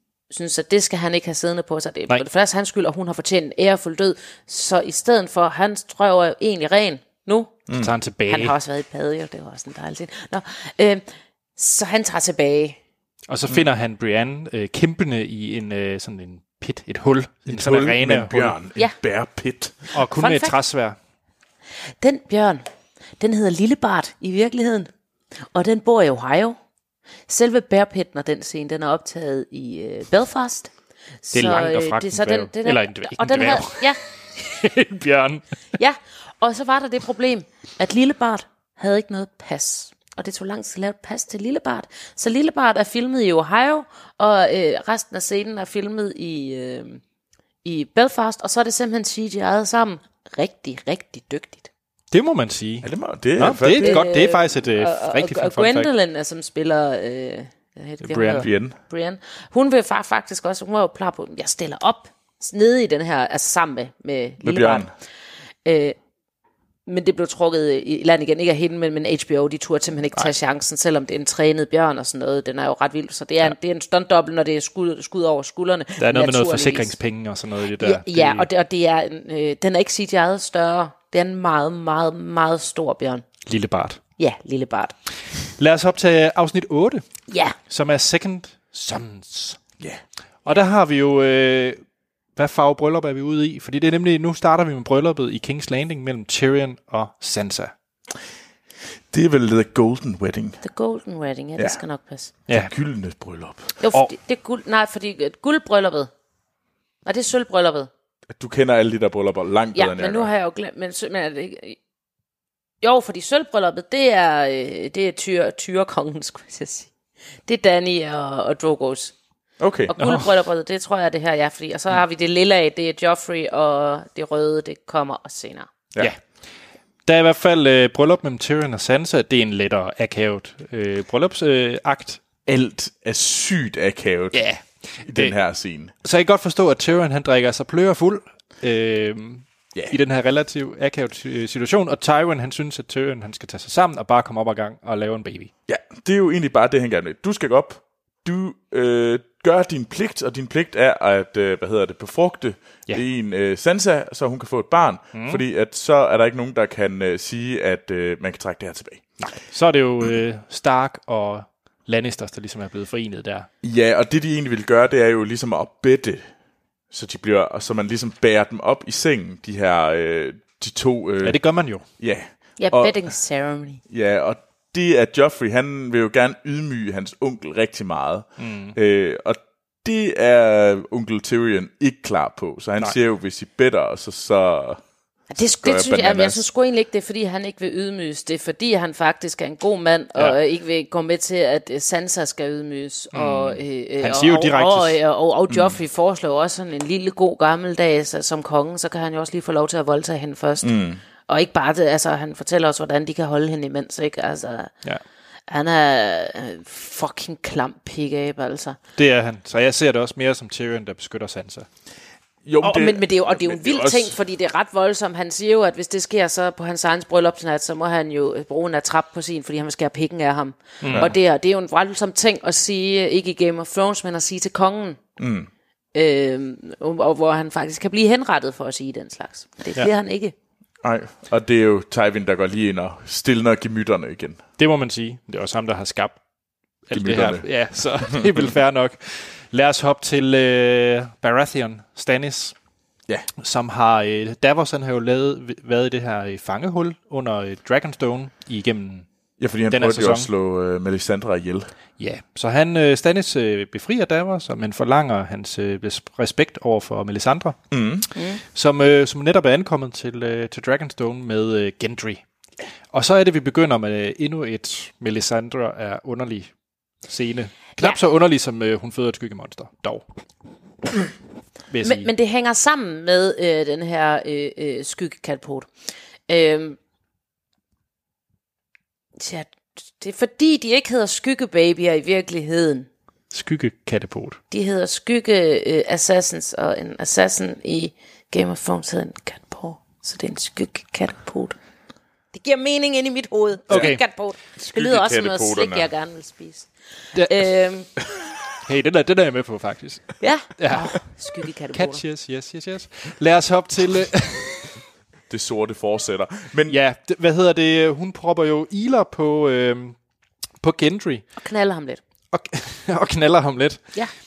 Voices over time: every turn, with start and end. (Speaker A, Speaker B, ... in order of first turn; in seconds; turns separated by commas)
Speaker A: 0.3-7.6, Speaker B: 7.8-8.6, Speaker A: 8.3-11.0, Speaker A: 11.6-12.8, Speaker B: 13.3-18.6, Speaker C: 17.5-19.9, Speaker B: 19.9-21.0, Speaker A: 20.1-20.6, Speaker A: 22.0-22.6, Speaker A: 23.2-24.9, Speaker A: 25.5-26.6, Speaker A: 27.3-34.0, Speaker B: 31.3-35.5, Speaker A: 35.8-47.0, Speaker A: 47.6-51.7, Speaker B: 52.1-55.9, Speaker C: 52.8-54.0, Speaker A: 53.6-64.9, Speaker B: 58.0-58.5, Speaker C: 58.4-58.8, Speaker C: 64.4-64.9, Speaker A: 65.7-66.0, Speaker A: 66.9-77.0, Speaker B: 76.0-78.5, Speaker A: 77.8-83.2, Speaker B: 83.5-84.0, Speaker A: 84.2-85.0, Speaker B: 85.6-87.1, Speaker A: 87.3-87.6, Speaker B: 87.7-89.6, Speaker B: 90.5-91.8, Speaker B: 92.4-97.7, Speaker C: 99.1-100.6, Speaker A: 100.6-102.3, Speaker B: 102.5-102.7, Speaker C: 102.5-103.7, Speaker A: 103.8-106.1, Speaker A: 107.0-107.9, Speaker C: 108.3-110.3, Speaker A: 109.8-111.8, Speaker A: 112.8-116.9, Speaker A: 117.5-119.1, Speaker C: 119.6-119.9, Speaker A: 119.9-125.7, Speaker B: 120.0-120.3, Speaker B: 127.1-132.2, Speaker C: 132.5-134.5, Speaker B: 134.3-135.4, Speaker C: 135.0-135.9, Speaker B: 136.0-145.5, Speaker C: 145.7-159.0, Speaker B: 155.1-155.4, Speaker B: 159.2-163.5, Speaker C: 163.6-166.3, Speaker C: 166.9-171.4, Speaker B: 171.2-171.8, Speaker C: 172.0-173.0, Speaker A: 172.6-173.8, Speaker C: 173.9-184.8, Speaker B: 178.4-178.8, Speaker A: 185.3-200.7, Speaker C: 185.6-186.4, Speaker C: 193.1-193.6, Speaker B: 194.0-195.0, Speaker C: 195.5-195.8, Speaker C: 200.6-201.0, Speaker A: 201.3-204.7, Speaker A: 205.5-208.8, Speaker B: 209.0-211.7, Speaker C: 212.4-214.2, Speaker A: 212.6-225.0, Speaker B: 220.8-221.1, Speaker C: 220.9-221.2, Speaker C: 225.2-225.5, Speaker A: 225.9-230.3, Speaker C: 230.8-234.4, Speaker B: 234.6-236.2, Speaker B: 236.9-242.6, Speaker C: 236.9-237.5, Speaker B: 243.4-249.1, Speaker C: 249.4-251.7, Speaker B: 249.7-250.3, Speaker B: 252.0-257.6, Speaker C: 257.7-258.1, Speaker A: 258.1-258.4, Speaker B: 258.5-262.2, Speaker B: 262.9-266.5, Speaker B: 267.1-270.0, Speaker B: 271.7-272.1, Speaker A: 271.8-275.7, Speaker A: 276.3-276.8, Speaker A: 279.2-282.9, Speaker B: 283.3-284.4, Speaker A: 284.5-291.6, Speaker A: 292.3-296.7, Speaker B: 293.7-294.0, Speaker C: 294.6-295.9, Speaker A: 297.3-297.9, Speaker B: 298.6-301.0, Speaker A: 300.2-302.0, Speaker B: 301.7-304.7, Speaker C: 305.3-306.8, Speaker B: 306.7-310.0, Speaker B: 310.6-311.2, Speaker A: 311.4-312.0, Speaker B: 312.3-313.9